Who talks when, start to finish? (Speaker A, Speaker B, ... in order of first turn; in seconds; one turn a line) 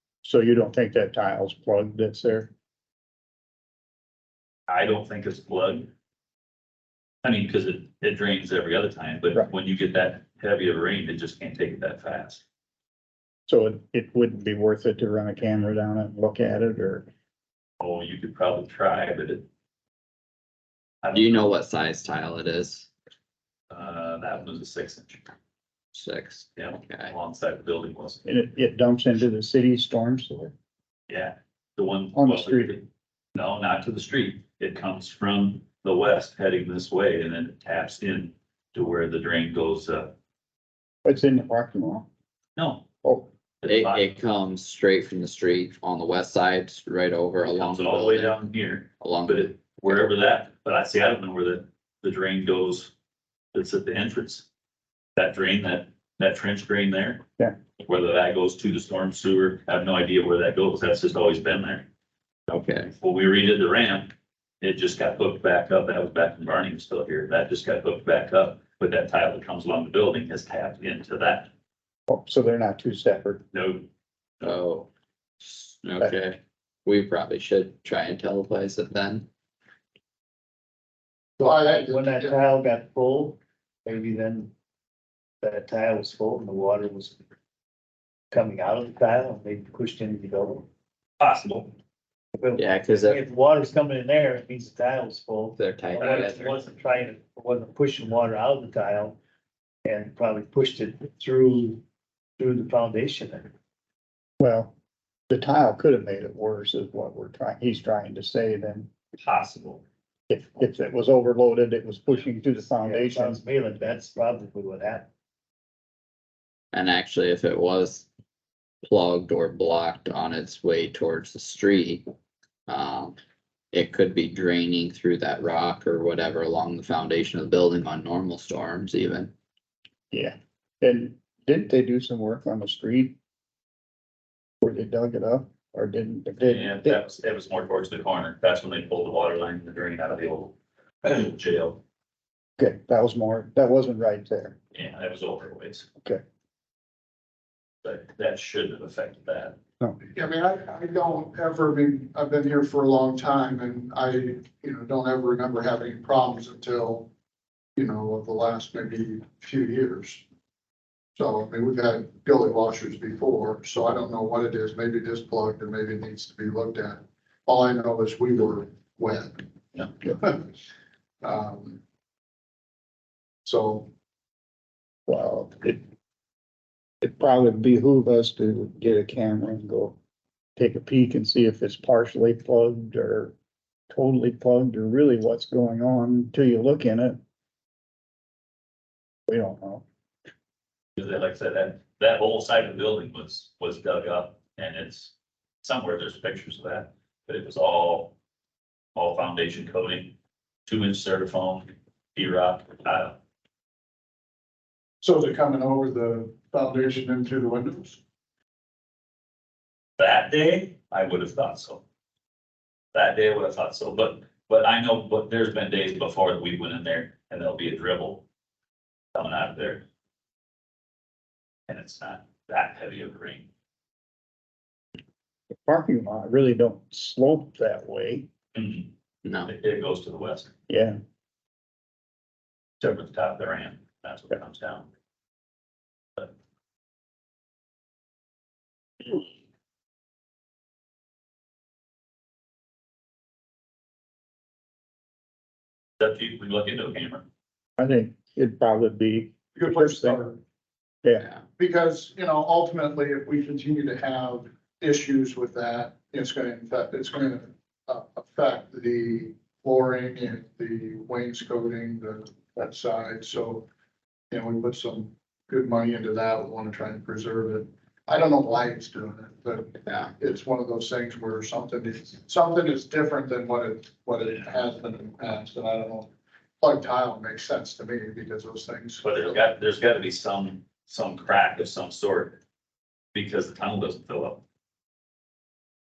Speaker A: 0.2-2.5
Speaker B: 4.7-5.9
Speaker B: 7.2-12.4
Speaker A: 13.5-17.1
Speaker B: 17.8-19.4
Speaker B: 21.0-21.5
Speaker C: 21.1-22.9
Speaker B: 23.7-25.2
Speaker C: 25.9-27.1
Speaker B: 26.6-28.2
Speaker A: 28.2-30.5
Speaker B: 31.1-40.1
Speaker A: 32.1-32.7
Speaker A: 41.0-42.1
Speaker B: 42.5-42.8
Speaker A: 43.0-43.3
Speaker B: 43.6-44.0
Speaker C: 43.6-48.4
Speaker B: 47.4-52.9
Speaker C: 49.0-49.6
Speaker B: 53.5-54.4
Speaker B: 55.1-57.2
Speaker B: 57.8-61.8
Speaker C: 62.5-62.9
Speaker B: 63.0-71.5
Speaker A: 72.1-73.4
Speaker B: 73.5-73.8
Speaker C: 74.4-74.9
Speaker C: 75.4-79.3
Speaker D: 81.4-82.4
Speaker E: 81.4-84.5
Speaker E: 85.4-87.2
Speaker E: 88.3-90.7
Speaker B: 91.2-91.7
Speaker E: 92.4-99.2
Speaker C: 92.5-93.2
Speaker C: 95.5-96.6
Speaker E: 99.8-101.8
Speaker E: 102.4-103.5
Speaker A: 104.4-104.7
Speaker A: 105.3-108.9
Speaker B: 109.2-109.8
Speaker A: 110.3-113.4
Speaker E: 112.8-115.1
Speaker C: 116.7-118.1
Speaker C: 118.8-122.0
Speaker C: 122.7-123.2
Speaker C: 123.7-129.3
Speaker A: 130.1-133.2
Speaker A: 134.6-137.0
Speaker B: 136.4-141.8
Speaker A: 142.6-144.6
Speaker B: 144.7-145.8
Speaker B: 147.8-149.6
Speaker D: 150.1-157.1
Speaker D: 157.8-160.2
Speaker D: 161.1-169.4
Speaker D: 170.0-170.5
Speaker D: 171.2-171.8
Speaker D: 173.4-173.9
Speaker A: 175.1-175.8
Speaker A: 177.0-180.0
Speaker A: 180.6-183.3
Speaker A: 183.9-187.2
Speaker A: 189.3-189.8
Speaker B: 190.9-195.1
Speaker B: 195.6-198.1
Speaker B: 198.9-200.1
Speaker B: 200.7-203.2
Speaker D: 205.0-208.0
Speaker B: 210.0-211.8
Speaker B: 212.9-218.2
Speaker B: 219.1-219.8
Speaker B: 221.7-223.5
Speaker A: 225.6-228.3
Speaker B: 228.5-228.9
Speaker C: 229.2-229.5
Speaker B: 229.4-230.5
Speaker A: 230.7-231.0
Speaker B: 232.8-234.9
Speaker B: 246.0-247.2
Speaker A: 247.8-250.2
Speaker D: 249.5-250.4
Speaker A: 251.0-251.3
Speaker D: 251.6-263.7
Speaker D: 264.3-279.4
Speaker B: 279.0-282.4
Speaker B: 283.1-284.4